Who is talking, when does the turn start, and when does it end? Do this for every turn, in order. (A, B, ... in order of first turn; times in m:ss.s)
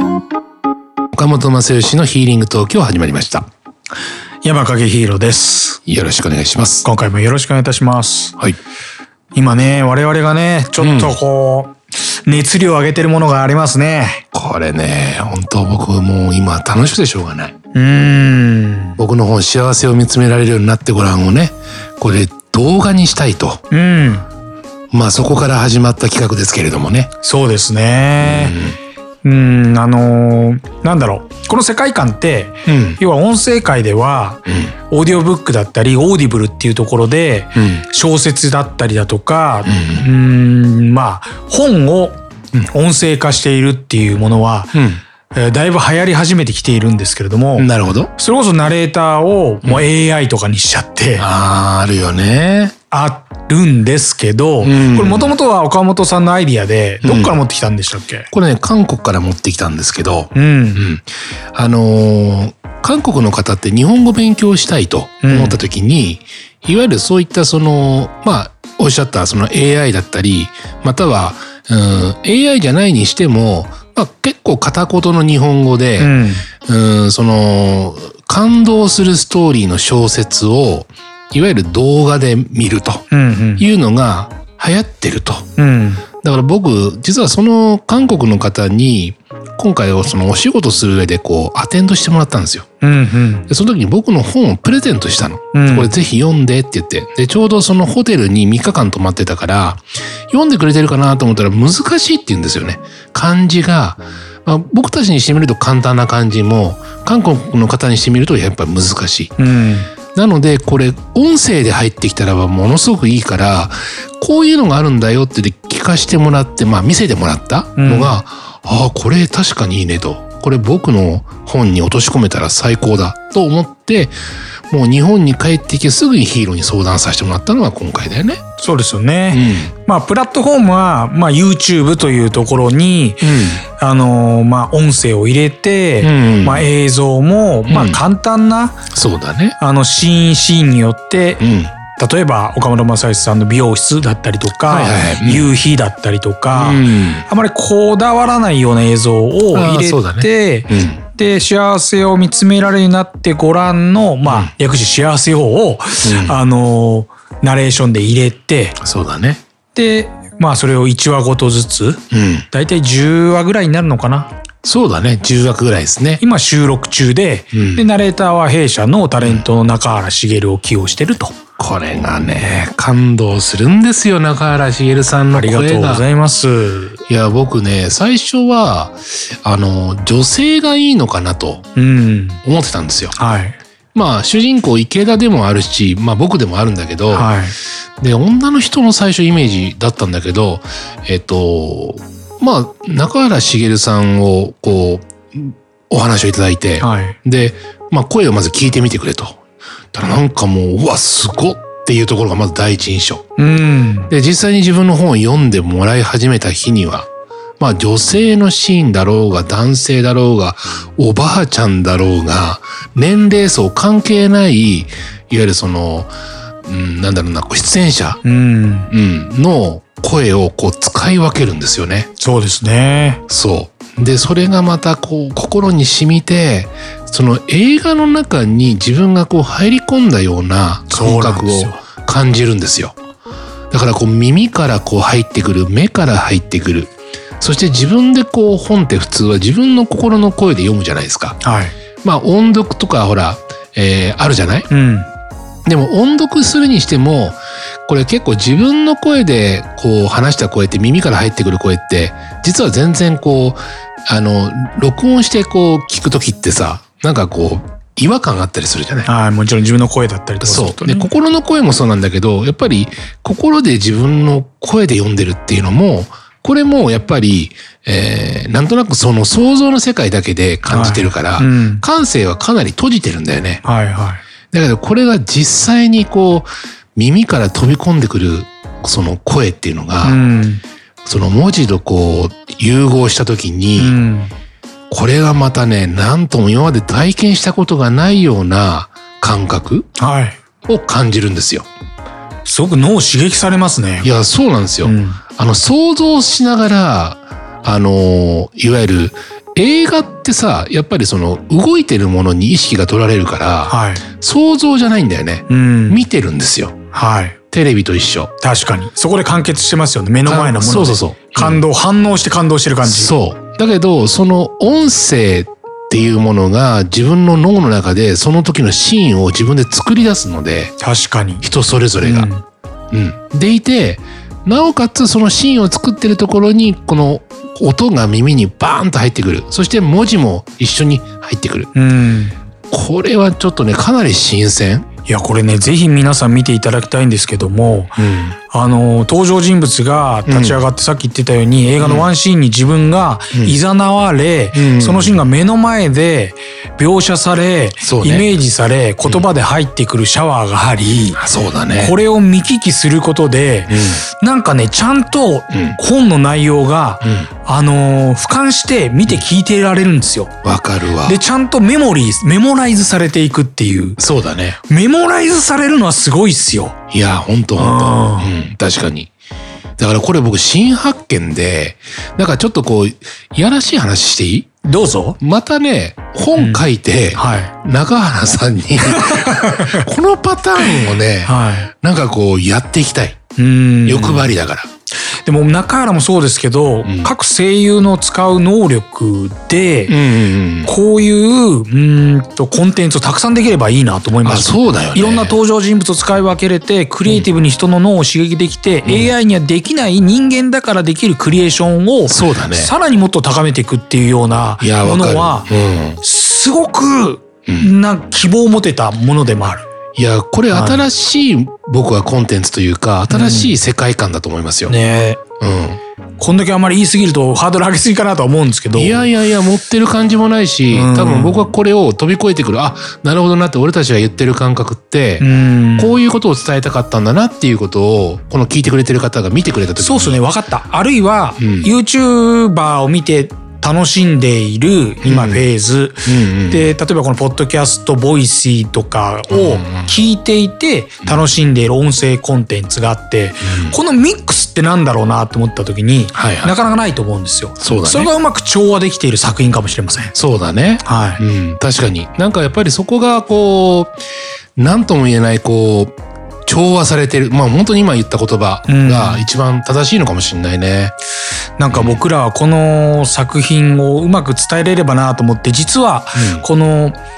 0:01.2-0:03.5 A
0:04.4-0:05.8 B
0:05.9-0:06.9 A
0:06.8-0:08.4 B
0:09.3-0:14.2 B
0:10.8-0:11.2 A
0:14.3-0:17.5 A
0:17.7-0:19.0 B
0:19.0-0:23.6 A
0:23.7-0:24.2 B
0:24.9-0:27.1 A
0:27.2-0:28.6 B
0:28.2-0:28.8 A
0:29.2-0:42.2 B
0:32.7-0:33.0 A
0:34.5-0:34.7 A
0:37.6-0:37.8 A
0:39.6-0:40.1 A
0:42.7-0:44.8 B
0:44.7-0:45.0 A
0:45.3-0:51.3 B
0:47.6-0:48.1 A
0:51.2-0:52.7 A
0:52.9-0:58.3 B
0:54.6-0:55.4 A
0:57.0-0:57.4 A
0:58.3-1:23.0 A
1:00.4-1:00.8 B
1:05.2-1:05.6 B
1:16.0-1:16.5 B
1:23.1-1:23.7 B
1:23.6-1:25.5 A
1:25.6-1:26.0 B
1:26.2-1:32.7 A
1:32.8-1:33.5 B
1:33.5-1:49.3 A
1:35.5-1:35.9 B
1:49.4-1:49.9 B
1:50.1-2:04.2 A
1:57.8-1:58.2 B
2:04.7-2:08.4 A
2:08.6-2:18.8 B
2:09.3-2:09.7 A
2:13.2-2:13.6 A
2:16.0-2:16.7 A
2:17.7-2:18.0 A
2:18.9-2:19.6 A
2:19.6-2:21.4 B
2:21.4-2:21.7 A
2:22.0-2:38.8 B
2:24.6-2:25.5 A
2:26.5-2:27.3 A
2:29.5-2:31.0 A
2:34.2-2:34.5 A
2:36.0-2:36.4 A
2:38.8-2:39.4 A
2:39.7-2:44.3 B
2:42.1-2:42.5 A
2:44.6-2:46.2 A
2:46.2-2:51.4 B
2:47.5-2:47.9 A
2:51.6-2:56.1 A
2:55.3-2:57.0 B
2:57.1-3:01.7 A
3:01.8-3:02.4 B
3:02.4-3:03.2 A
3:03.2-3:03.6 B
3:03.9-3:07.4 A
3:07.1-3:07.6 B
3:08.0-3:19.4 A
3:16.8-3:17.2 B
3:19.9-3:23.2 A
3:23.4-3:24.1 B
3:24.1-3:27.1 A
3:27.6-3:36.1 A
3:36.6-3:38.2 A
3:38.2-3:38.9 B
3:38.9-3:42.1 A
3:42.2-3:43.2 B
3:43.3-3:53.0 A
3:50.9-3:51.8 B
3:53.7-4:01.4 A
4:01.4-4:01.7 B
4:02.0-4:04.7 A
4:04.7-4:05.1 B
4:05.7-4:19.1 A
4:19.0-4:21.1 B
4:20.4-4:33.6 A
4:30.7-4:31.8 B
4:33.6-4:34.2 B
4:34.5-4:40.2 A
4:40.0-4:40.6 B
4:41.0-4:44.0 A
4:43.8-4:44.3 B
4:44.9-4:49.9 A
4:50.0-4:50.4 B
4:50.7-4:51.7 A
4:52.4-4:54.1 B
4:54.0-5:06.8 A
4:54.8-4:55.2 B
5:03.7-5:04.0 B
5:05.5-5:06.0 B
5:06.9-5:07.4 B
5:07.5-5:08.3 A
5:08.4-5:13.1 B
5:10.2-5:11.7 A
5:12.8-5:20.8 A
5:20.8-5:21.5 B
5:21.4-5:22.3 A
5:22.0-5:22.4 B
5:22.9-5:31.7 A
5:31.7-5:32.3 B
5:32.7-5:34.9 A
5:35.1-5:38.0 B
5:38.0-5:38.4 A
5:38.5-5:51.2 B
5:40.3-5:40.6 A
5:41.8-5:42.1 A
5:44.5-5:45.2 A
5:47.8-5:48.3 A
5:51.1-5:52.0 A
5:51.7-6:00.3 B
5:53.7-5:54.0 A
5:55.5-5:55.8 A
5:57.0-5:57.3 A
6:00.4-6:01.2 A
6:01.0-6:04.0 B
6:04.0-6:04.6 A
6:04.7-6:06.8 B
6:06.9-6:09.1 A
6:07.6-6:08.3 B
6:09.8-6:14.5 A
6:14.6-6:15.2 B
6:15.2-6:23.2 A
6:16.4-6:16.6 B
6:17.2-6:17.5 B
6:18.9-6:19.8 B
6:20.7-6:21.7 B
6:23.4-6:24.3 B
6:23.9-6:24.7 A
6:25.2-6:30.0 B
6:26.8-6:27.1 A
6:29.9-6:30.8 A
6:30.7-6:45.5 B
6:34.2-6:35.4 A
6:38.8-6:39.1 A
6:42.1-6:42.7 A
6:44.6-6:46.0 A
6:46.0-6:49.7 B
6:50.0-6:54.8 A
6:50.5-6:50.8 B
6:53.1-6:53.6 B
6:54.7-6:55.2 B
6:55.4-6:55.8 A
6:56.2-6:59.1 B
6:58.7-7:10.2 A
7:00.7-7:01.4 B
7:05.2-7:06.0 B
7:09.8-7:30.1 B
7:11.4-7:11.7 A
7:15.0-7:15.4 A
7:16.0-7:16.7 A
7:19.3-7:20.0 A
7:23.4-7:23.8 A
7:26.1-7:26.6 A
7:27.6-7:28.1 A
7:30.1-7:33.9 A
7:30.8-7:31.2 B
7:34.6-7:35.9 A
7:36.5-7:40.9 A
7:38.7-7:39.3 B
7:41.6-7:47.0 B
7:41.7-7:42.0 A
7:46.2-7:46.5 A